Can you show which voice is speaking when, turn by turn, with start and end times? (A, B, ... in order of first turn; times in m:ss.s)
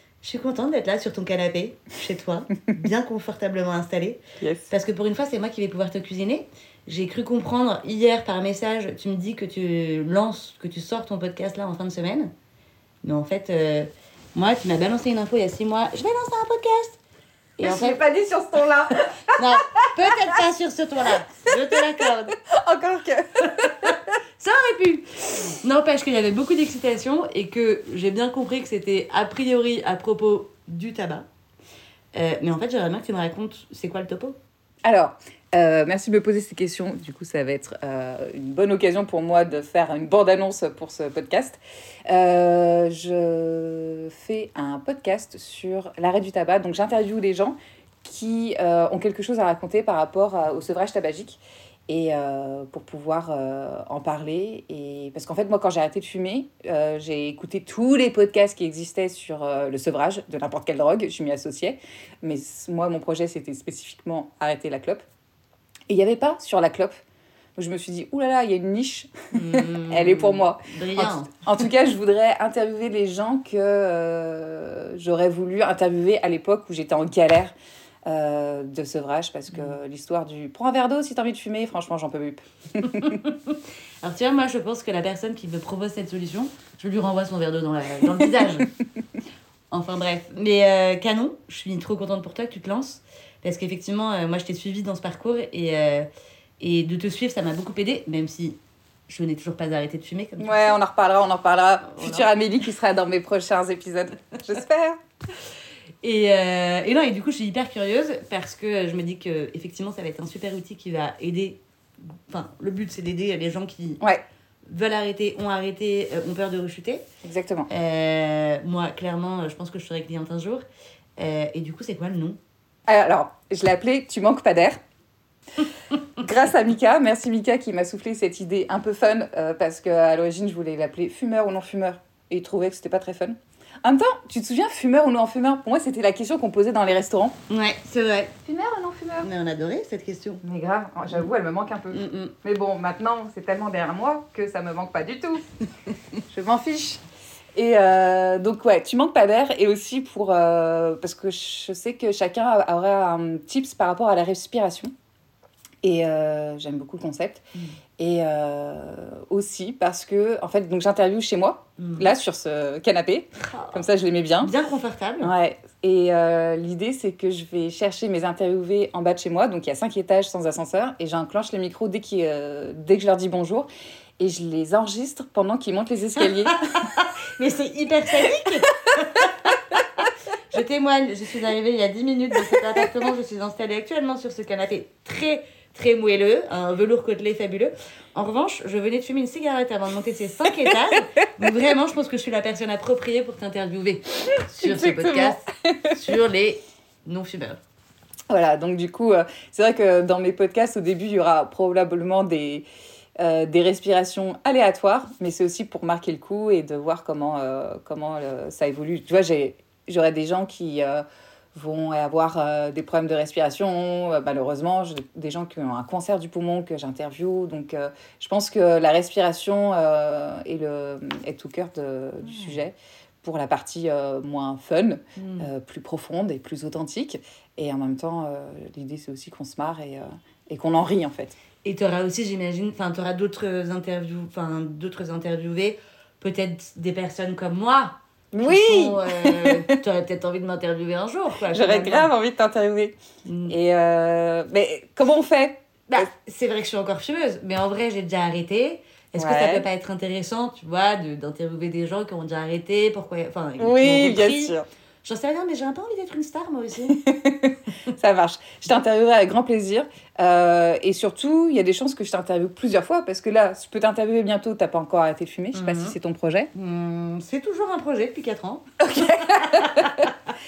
0:00.2-0:12.3 A
0:04.4-0:04.7 B
0:13.0-0:17.0 A
0:17.6-0:18.0 A
0:17.6-0:20.3 B
0:19.4-0:22.4 A
0:22.5-0:23.7 B
0:23.5-0:31.2 A
0:32.1-0:34.4 A
0:34.8-1:05.0 B
1:05.9-1:06.9 B
1:07.6-1:17.5 B
1:09.3-1:11.3 A
1:18.1-1:23.1 B
1:22.9-1:28.7 A
1:29.7-1:36.1 A
1:36.6-1:40.8 A
1:40.4-1:45.0 B
1:41.9-1:42.3 A
1:46.0-1:51.6 A
1:52.3-1:54.0 A
1:54.7-1:57.0 A
1:57.2-1:57.7 B
1:57.7-2:00.6 A
2:01.2-2:02.4 A
2:02.9-2:04.8 B
2:06.2-2:17.3 B
2:17.5-2:18.3 A
2:18.4-2:19.3 B
2:19.2-2:20.4 A
2:20.4-2:25.4 B
2:21.9-2:22.3 A
2:26.3-2:27.0 B
2:27.5-2:34.9 B
2:35.8-2:37.4 B
2:38.0-2:44.5 B
2:41.8-2:42.1 A
2:43.4-2:43.8 A
2:44.4-2:45.3 A
2:45.2-2:53.7 B
2:54.2-2:56.6 B
2:56.2-3:17.6 A
3:14.6-3:16.0 B
3:18.3-3:22.7 B
3:23.2-3:51.4 B
3:42.2-3:42.5 A
3:45.2-3:45.5 A
3:51.6-4:02.1 A
3:58.3-3:59.8 B
4:01.5-4:06.1 B
4:03.2-4:03.6 A
4:05.9-4:17.0 A
4:09.2-4:09.6 B
4:13.6-4:14.6 B
4:16.9-4:26.5 B
4:25.5-4:26.0 A
4:26.5-4:30.0 A
4:28.8-4:30.1 B